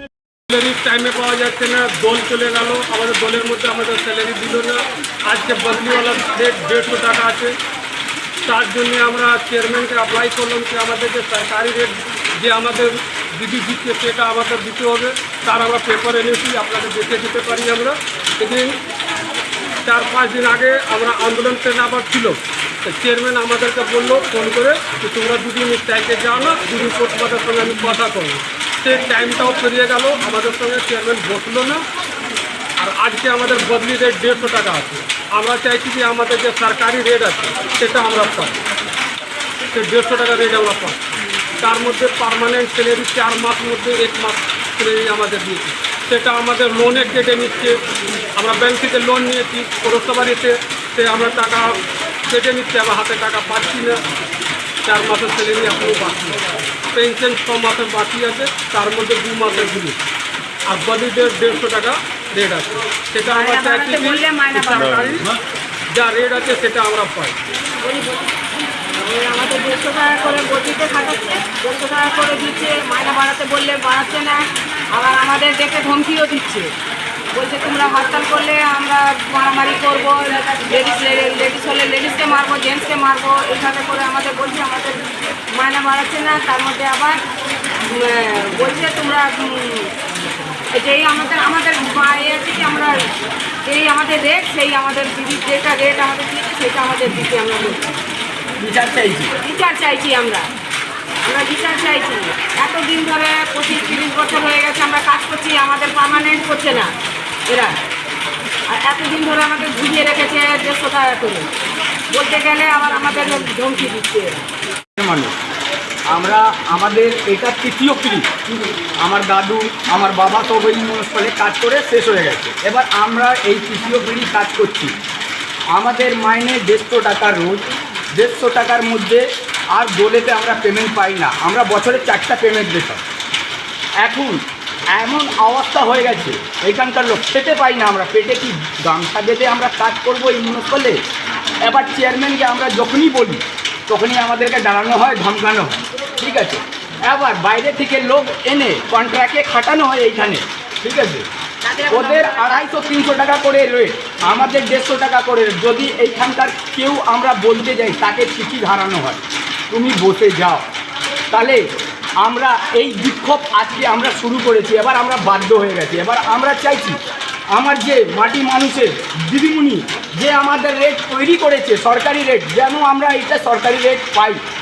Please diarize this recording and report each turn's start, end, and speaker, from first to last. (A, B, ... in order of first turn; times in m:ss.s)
0:00.5-0:07.5 A
0:08.4-0:18.8 A
0:19.8-0:31.8 A
0:32.8-0:38.6 A
0:39.7-0:41.0 A
0:41.6-0:47.8 A
0:48.4-0:54.0 A
0:54.8-0:56.4 A
0:56.9-1:00.0 A
1:00.7-1:05.4 A
1:03.2-1:05.2 B
1:05.9-1:07.4 A
1:07.8-1:08.2 B
1:08.9-1:16.7 B
1:17.3-1:27.2 B
1:27.9-1:29.9 B
1:30.7-1:33.0 B
1:33.6-1:37.9 B
1:38.6-1:39.3 C
1:39.4-1:40.5 B
1:41.2-1:46.9 B
1:47.5-1:47.7 B
1:48.7-1:51.5 B
1:52.1-1:54.4 B
1:55.0-1:55.3 C
1:56.1-1:58.3 C
1:59.0-2:05.0 C
2:05.7-2:07.6 C
2:08.1-2:13.0 C
2:14.0-2:14.4 C
2:14.9-2:21.0 C
2:21.6-2:31.2 C
2:31.6-2:32.6 B
2:31.9-2:40.6 C
2:41.3-2:41.6 C
2:42.2-2:47.0 C
2:47.5-2:54.4 C